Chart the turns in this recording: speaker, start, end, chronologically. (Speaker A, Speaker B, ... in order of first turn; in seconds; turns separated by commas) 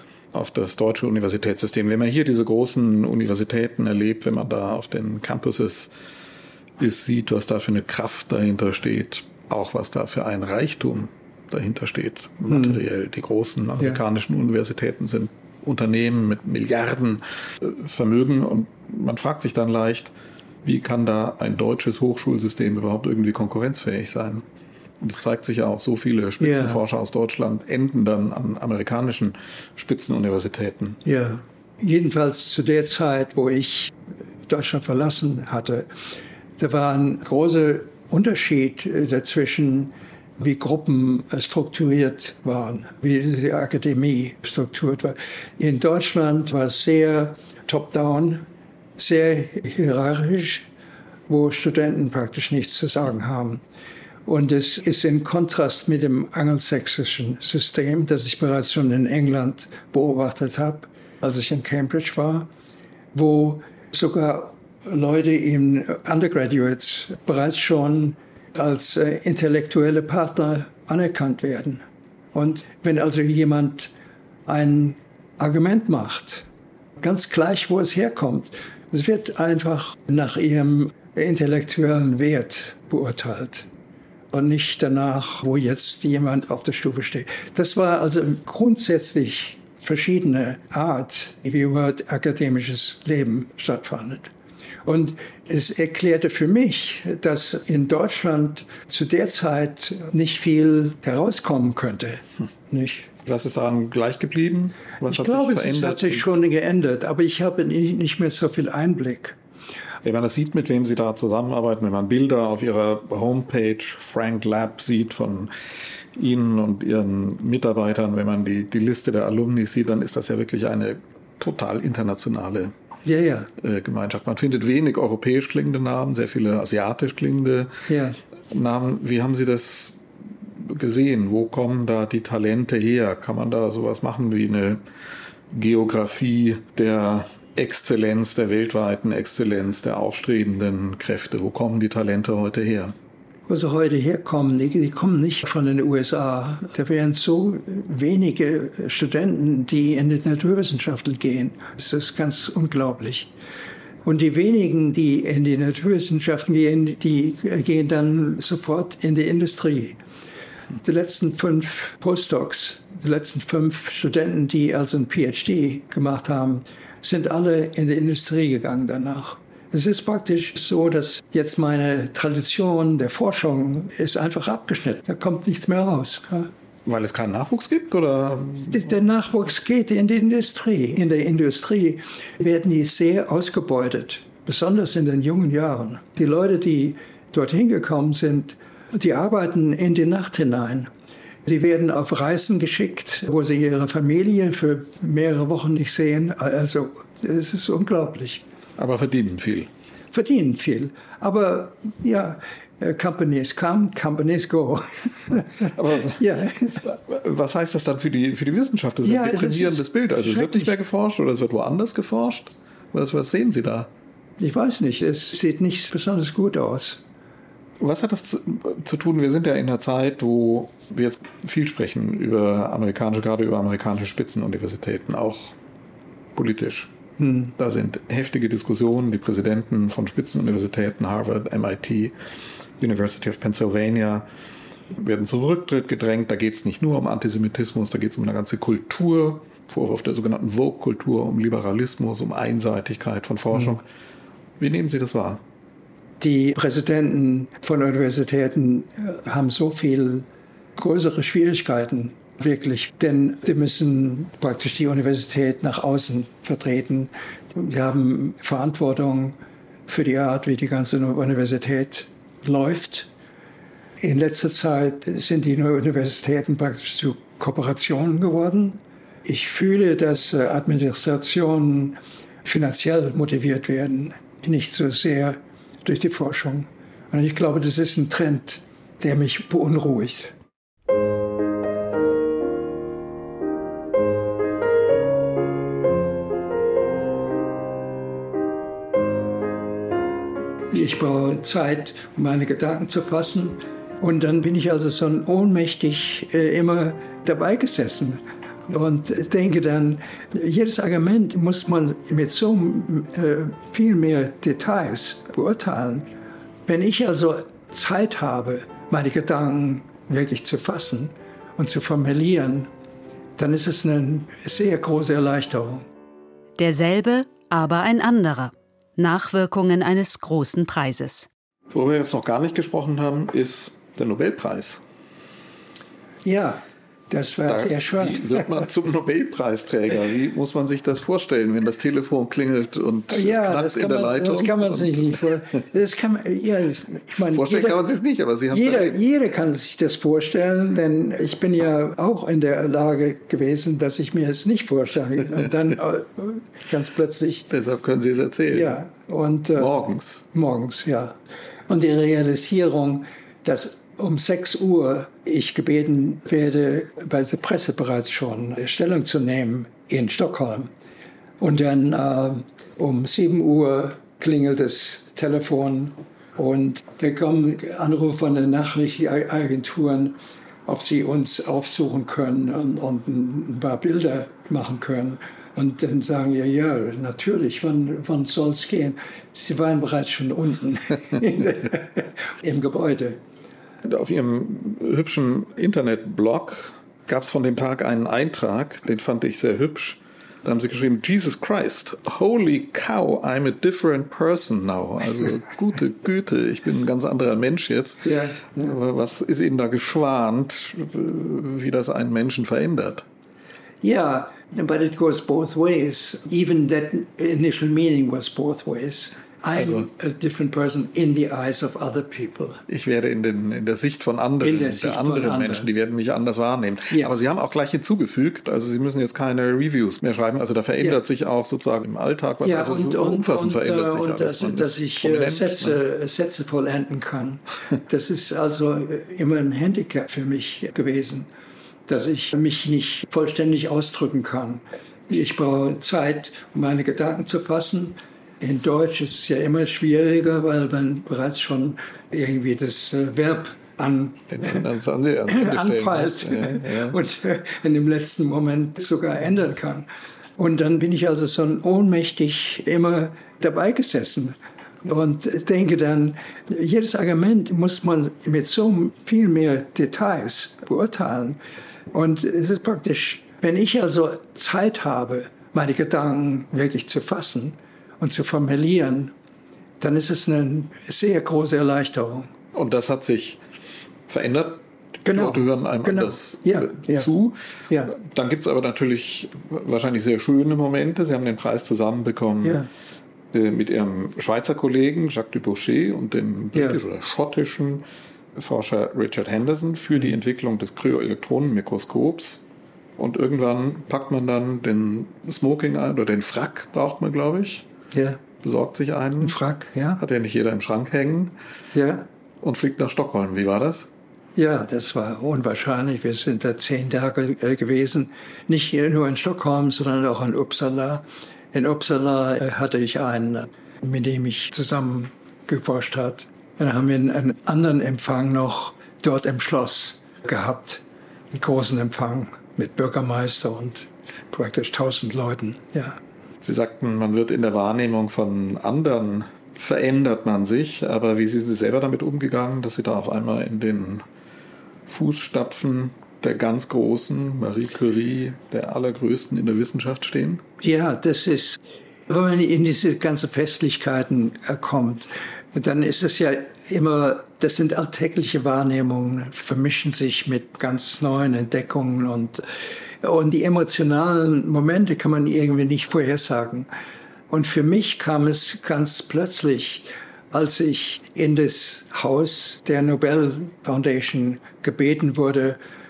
Speaker A: 0.3-5.9, Speaker A: 6.8-20.1, Speaker B: 12.5-12.8, Speaker A: 20.6-24.4, Speaker A: 25.0-31.0, Speaker B: 26.4-26.8, Speaker B: 31.0-33.9, Speaker B: 34.5-35.9, Speaker B: 36.6-50.6, Speaker B: 51.3-53.6, Speaker B: 54.2-62.5, Speaker B: 63.1-71.8, Speaker B: 72.3-73.9, Speaker B: 74.5-76.5, Speaker B: 77.0-83.7, Speaker B: 84.3-94.3, Speaker B: 94.8-103.1, Speaker A: 103.2-106.2, Speaker B: 105.0-109.4, Speaker A: 110.0-115.5, Speaker A: 116.1-122.7, Speaker B: 123.0-123.5, Speaker A: 123.6-127.8, Speaker B: 127.9-128.2, Speaker A: 128.5-134.8, Speaker A: 135.5-142.9, Speaker B: 143.5-153.3, Speaker B: 154.0-160.0, Speaker B: 160.8-176.5, Speaker A: 176.8-178.9, Speaker B: 178.7-190.9, Speaker B: 191.4-198.4, Speaker A: 198.8-199.7, Speaker B: 200.1-206.8, Speaker A: 205.6-206.2, Speaker A: 206.8-213.9, Speaker B: 209.0-210.7, Speaker B: 214.4-217.0, Speaker A: 217.8-225.6, Speaker A: 226.3-226.9, Speaker B: 227.2-227.5, Speaker A: 227.6-232.2, Speaker A: 232.8-234.3, Speaker A: 234.9-243.8, Speaker A: 244.6-245.4, Speaker B: 246.2-263.1, Speaker B: 264.0-280.3, Speaker B: 290.7-306.1, Speaker B: 306.7-312.7, Speaker B: 313.4-315.9, Speaker C: 316.6-321.3, Speaker A: 321.7-324.8, Speaker B: 326.2-328.5, Speaker A: 327.4-335.2, Speaker B: 333.1-337.8, Speaker A: 337.3-339.0, Speaker B: 338.5-347.5, Speaker A: 347.5-348.8, Speaker B: 348.5-349.7, Speaker A: 349.5-350.2, Speaker B: 350.3-351.2, Speaker B: 351.7-360.7, Speaker B: 361.4-383.2, Speaker A: 383.8-403.1, Speaker B: 398.0-398.7, Speaker B: 403.8-412.6, Speaker A: 409.6-409.9, Speaker A: 412.7-425.8, Speaker B: 414.4-415.7, Speaker B: 422.4-431.3, Speaker B: 431.9-444.6, Speaker A: 444.3-447.0, Speaker B: 445.3-449.9, Speaker B: 450.4-461.4, Speaker B: 461.9-469.1, Speaker B: 469.8-472.3, Speaker A: 472.5-473.4, Speaker A: 474.1-482.6, Speaker B: 475.0-477.1, Speaker B: 477.7-477.9, Speaker B: 482.4-482.7, Speaker A: 483.3-492.4, Speaker A: 493.0-497.7, Speaker B: 497.9-498.2, Speaker A: 498.4-499.4, Speaker B: 499.2-500.0, Speaker A: 500.0-501.4, Speaker B: 501.7-502.1, Speaker A: 502.4-503.9, Speaker B: 504.4-526.0, Speaker A: 526.4-534.0, Speaker A: 534.9-540.4, Speaker B: 540.6-556.7, Speaker B: 557.3-565.6